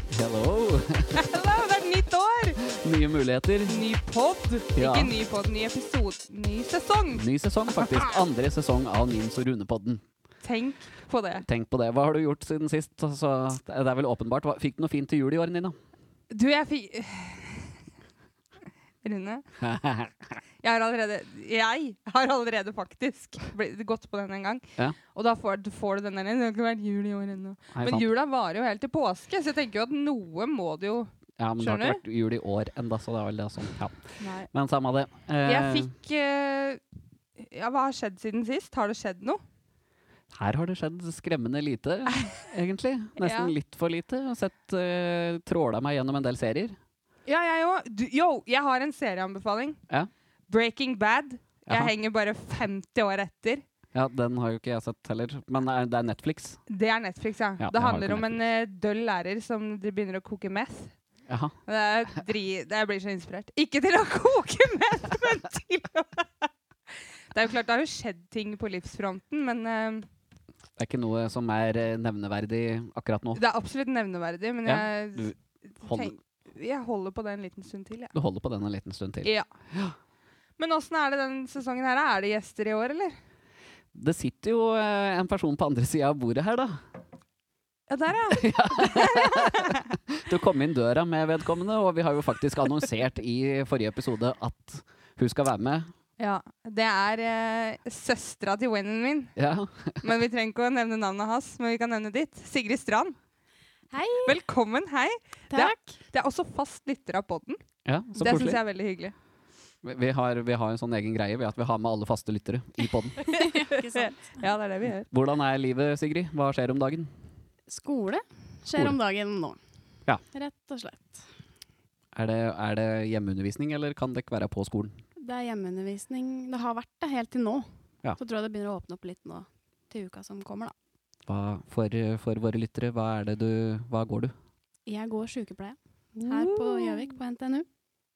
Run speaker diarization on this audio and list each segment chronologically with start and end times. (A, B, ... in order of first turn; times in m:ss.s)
0:00.1-0:01.3 A
0:01.1-0:02.6 B
0:02.6-0:03.8 A
0:03.7-0:08.1 B
0:04.7-0:05.2 A
0:07.1-0:10.0 A
0:10.4-0:11.4 B
0:11.4-0:15.8 A
0:16.3-0:17.7 B
0:19.0-0:19.4 B
0:19.6-0:20.3 A
0:20.6-0:32.0 B
0:27.7-0:28.1 A
0:31.4-0:35.9 A
0:34.2-0:34.5 B
0:35.4-0:36.8 B
0:37.4-0:39.4 B
0:40.3-0:46.8 A
0:43.2-0:43.5 B
0:47.2-0:49.8 B
0:50.5-0:53.6 B
0:51.7-0:51.9 A
0:53.9-0:56.6 A
0:56.7-1:00.9 B
0:57.6-0:58.4 A
1:01.3-1:01.5 A
1:01.7-1:06.5 B
1:07.3-1:10.1 B
1:10.8-1:13.4 A
1:13.4-1:18.1 B
1:14.6-1:16.1 A
1:18.1-1:20.0 A
1:20.6-1:23.2 B
1:23.9-1:26.8 A
1:27.9-1:29.8 B
1:28.3-1:35.9 A
1:36.2-1:39.3 B
1:39.4-1:40.0 A
1:40.0-1:43.2 B
1:43.9-1:44.4 C
1:44.2-1:47.6 B
1:45.5-1:45.9 C
1:47.8-1:48.6 A
1:48.2-1:49.1 B
1:49.8-1:53.2 A
1:53.2-1:54.2 C
1:53.2-1:55.1 B
1:55.1-1:57.1 A
1:57.7-1:59.6 C
2:00.3-2:01.3 C
2:02.1-2:04.9 A
2:05.2-2:10.7 C
2:11.3-2:14.3 A
2:14.9-2:17.6 C
2:16.2-2:17.1 B